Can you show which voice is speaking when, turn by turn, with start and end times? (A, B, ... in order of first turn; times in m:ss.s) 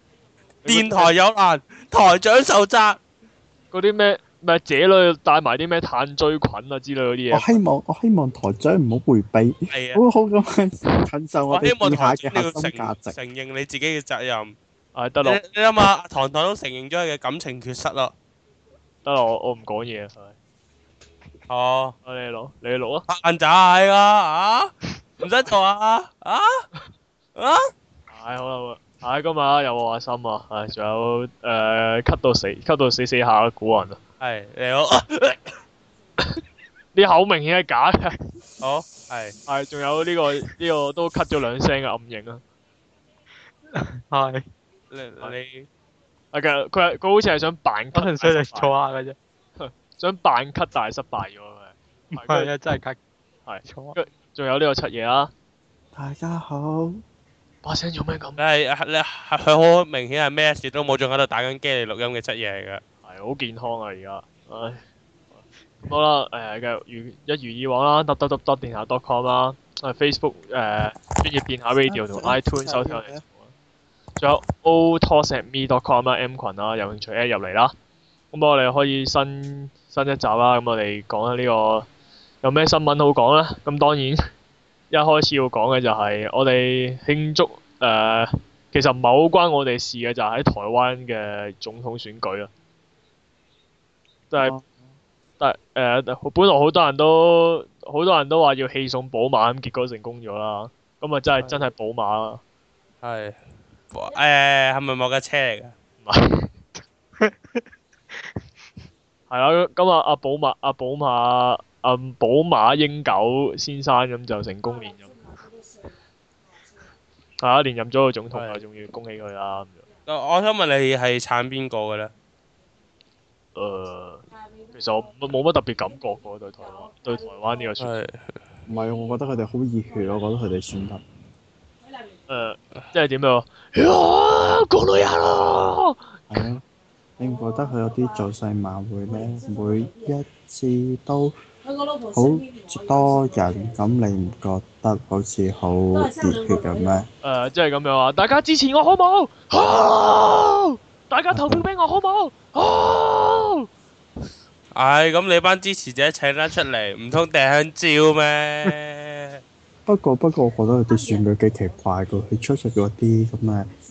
0:00.6-0:01.1 A
0:00.6-0:03.0 B
0:03.7-0:07.6 A
0:07.3-0:13.1 C
0:09.7-0:10.0 B
0:11.5-0:14.5 B
0:14.9-0:15.4 A
0:15.2-0:18.1 B
0:19.0-0:20.3 A
0:21.5-0:22.0 B
0:22.0-0:23.0 A
0:23.1-0:26.7 B
0:27.4-0:27.7 B
0:28.1-0:34.0 A
0:34.2-0:35.4 B
0:36.9-0:38.2 A
0:38.6-0:39.4 B
0:39.5-0:42.4 A
0:43.7-0:44.4 D
0:44.9-0:45.7 B
0:46.3-0:48.7 A
0:47.9-0:49.2 D
0:49.6-0:52.5 A
0:52.1-0:53.0 D
0:53.4-0:55.3 A
0:53.6-0:54.0 D
0:55.9-0:57.0 C
0:57.6-0:58.4 A
0:58.4-1:02.8 B
1:03.0-1:04.8 A
1:05.4-1:13.5 A
1:11.8-1:13.2 C
1:14.2-1:17.7 A
1:18.3-1:21.9 A
1:22.4-1:24.2 A
1:24.9-1:32.5 A
1:34.4-1:34.6 C
1:35.4-1:42.4 A
1:43.0-1:43.4 B
1:43.9-1:45.7 B
1:46.0-1:46.5 A
1:49.3-1:55.2 A
1:57.4-1:59.8 A
1:58.3-1:58.6 B
2:00.1-2:02.1 B
2:03.5-2:07.9 A
2:07.8-2:08.4 B
2:08.7-2:11.0 C
2:12.3-2:16.0 A
2:16.3-2:16.6 C
2:17.2-2:21.3 C
2:22.1-2:27.1 C
2:27.2-2:33.7 A
2:31.3-2:31.6 C
2:34.7-2:39.4 B
2:39.8-2:43.7 C